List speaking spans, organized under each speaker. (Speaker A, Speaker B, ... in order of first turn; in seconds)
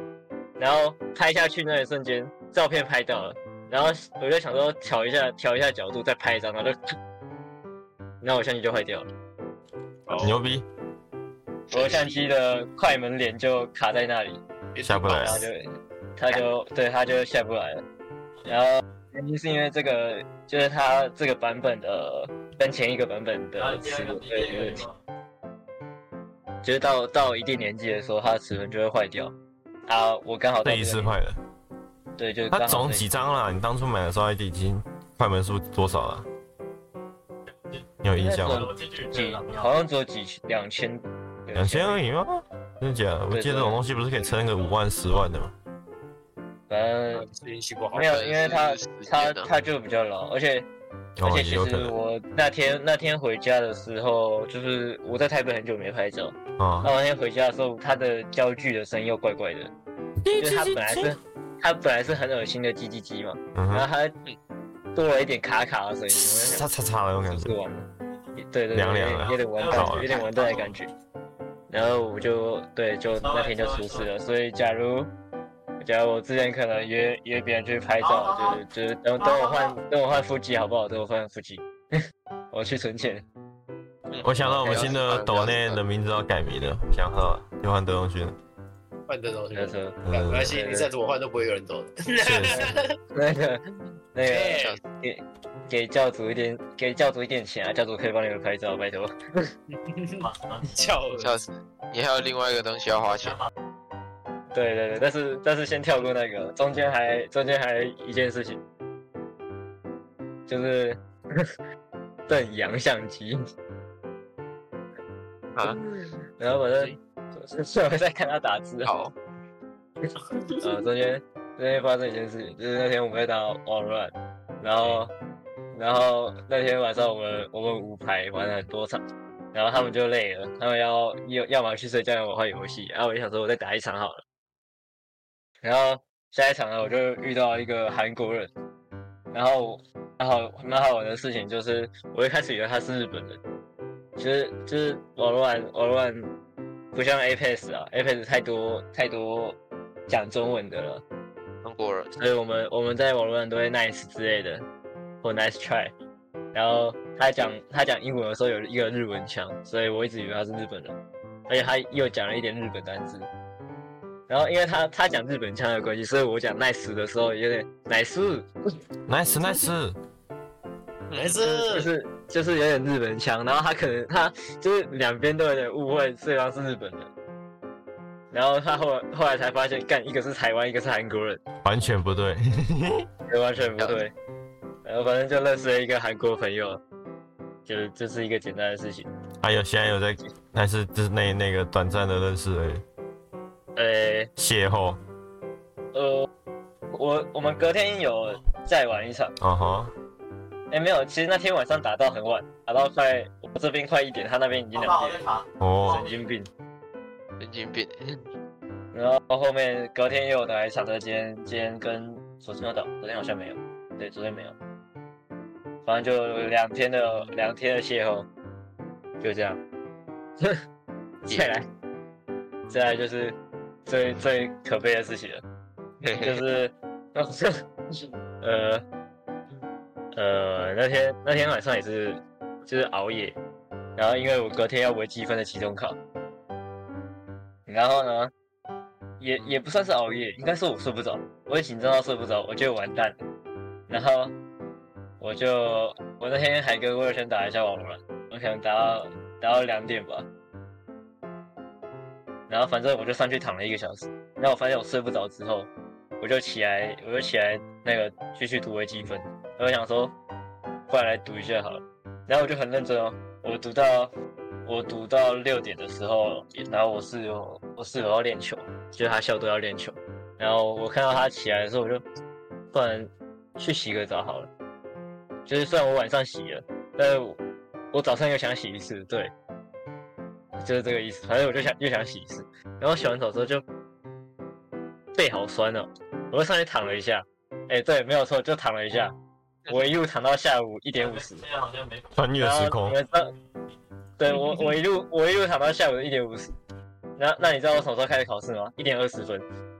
Speaker A: 0.6-6.8, 8.2-9.1, 11.7-17.8, 18.5-24.9, 26.6-29.3, 29.9-31.1, 32.2-33.2, 38.2-42.0, 43.3-43.8, 46.7-47.2, 47.9-50.7, 51.2-59.7, 60.4-64.1, 64.9-66.7, 67.3-70.9, 71.7-75.1, 75.8-82.0, 82.5-83.2, 84.1-85.1, 89.5-90.9, 92.5-99.5, 104.5-108.6, 110.5-111.5, 112.3-113.4, 115.6-118.9, 120.6-125.1, 125.7-129.0, 129.5-134.2, 135.6-138.5, 139.3-143.4, 144.2-146.3, 146.9-149.6, 150.1-151.0, 152.2-154.6, 155.2-155.9, 156.5-160.9, 161.5-163.3, 164.3-168.5, 171.4-177.1, 178.3-181.4, 183.3-184.1, 184.8-186.8, 187.7-189.1, 193.8-194.3, 195.9-196.3, 196.9-199.3, 200.7-205.2, 205.9-206.5, 208.9-214.6, 215.8-218.3, 219.2-219.6, 221.2-221.7, 222.7-225.4, 226.2-228.8, 230.1-233.4, 233.9-236.0, 237.7-238.3, 239.2-243.2, 243.9-244.3, 245.2-250.3, 252.5-255.7, 256.2-260.1, 260.9-264.1, 264.6-272.0, 272.7-274.5, 275.5-277.4, 277.9-279.3, 280.6-283.6, 285.1-289.1, 289.7-291.4, 292.4-293.3, 294.2-296.5, 297.2-299.4
Speaker B: 10.1-10.4, 14.9-15.3, 47.1-48.2, 89.1-93.0, 94.2-94.8, 99.7-101.5, 171.1-171.9
Speaker C: 10.2-10.6, 14.8-15.5, 30.6-31.4, 32.5-36.2, 38.0-38.7, 41.5-45.5, 51.2-52.0, 56.6-56.9, 60.2-61.2, 63.5-63.9, 66.1-67.5, 68.7-70.1, 84.2-88.3, 90.0-90.5, 92.2-92.7, 169.1-169.9, 181.6-183.1, 189.4-192.8, 194.4-195.0, 199.4-199.9, 205.6-206.0, 292.1-292.9
Speaker D: 11.7-12.2, 48.0-49.5, 84.1-85.8, 101.2-103.4, 118.8-119.1, 124.8-125.0, 151.6-152.1, 171.1-171.4, 207.4-208.2, 226.0-226.4
Speaker E: 23.6-25.0, 37.5-39.8, 44.2-45.5, 69.2-70.7, 73.1-74.1, 78.0-78.6, 79.2-79.8, 100.2-100.7, 103.1-103.5, 204.7-206.2, 290.9-293.3